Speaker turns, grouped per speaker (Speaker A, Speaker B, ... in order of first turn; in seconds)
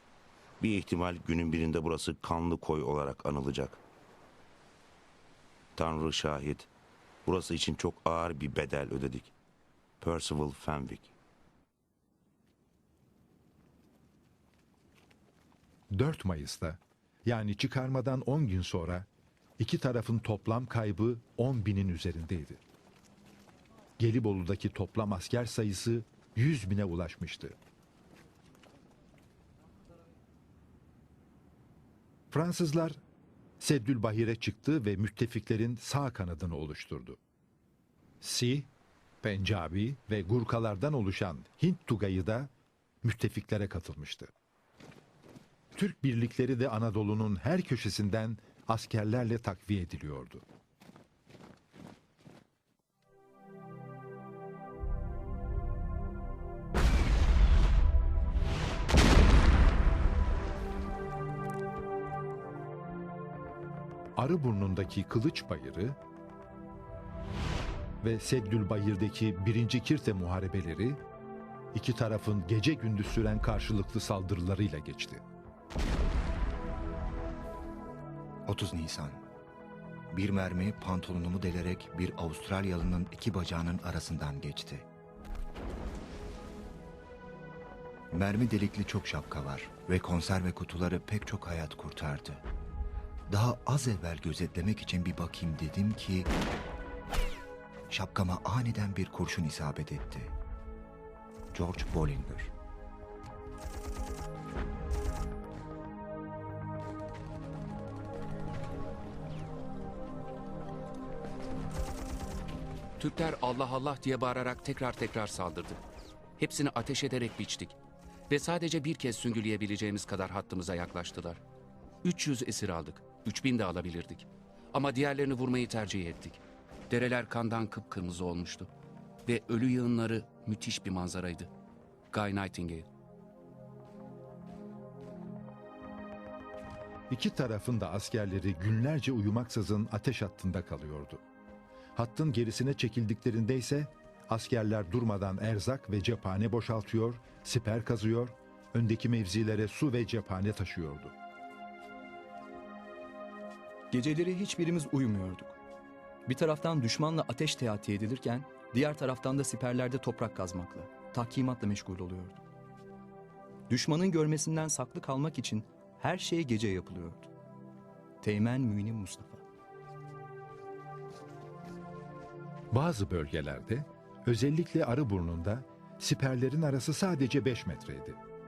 Speaker A: 0.6-3.8, 5.8-6.7, 7.2-9.3, 10.0-11.1
Speaker B: 15.9-19.1, 19.6-22.6, 24.0-27.6, 32.3-33.0, 33.6-37.2, 38.2-38.7, 39.2-42.5, 43.0-44.3, 45.7-50.4, 64.2-66.0, 68.0-71.0, 71.7-75.2, 137.1-141.2, 141.9-151.1, 172.7-178.2
Speaker C: 78.5-79.2, 80.1-84.8, 88.1-92.4, 93.3-96.3, 97.9-100.3, 101.5-102.5
Speaker D: 113.0-115.8, 116.4-117.7, 118.3-121.4, 122.0-128.7, 129.2-131.5, 132.1-132.8
Speaker E: 153.9-155.5, 156.3-162.4, 163.7-167.2, 168.2-169.4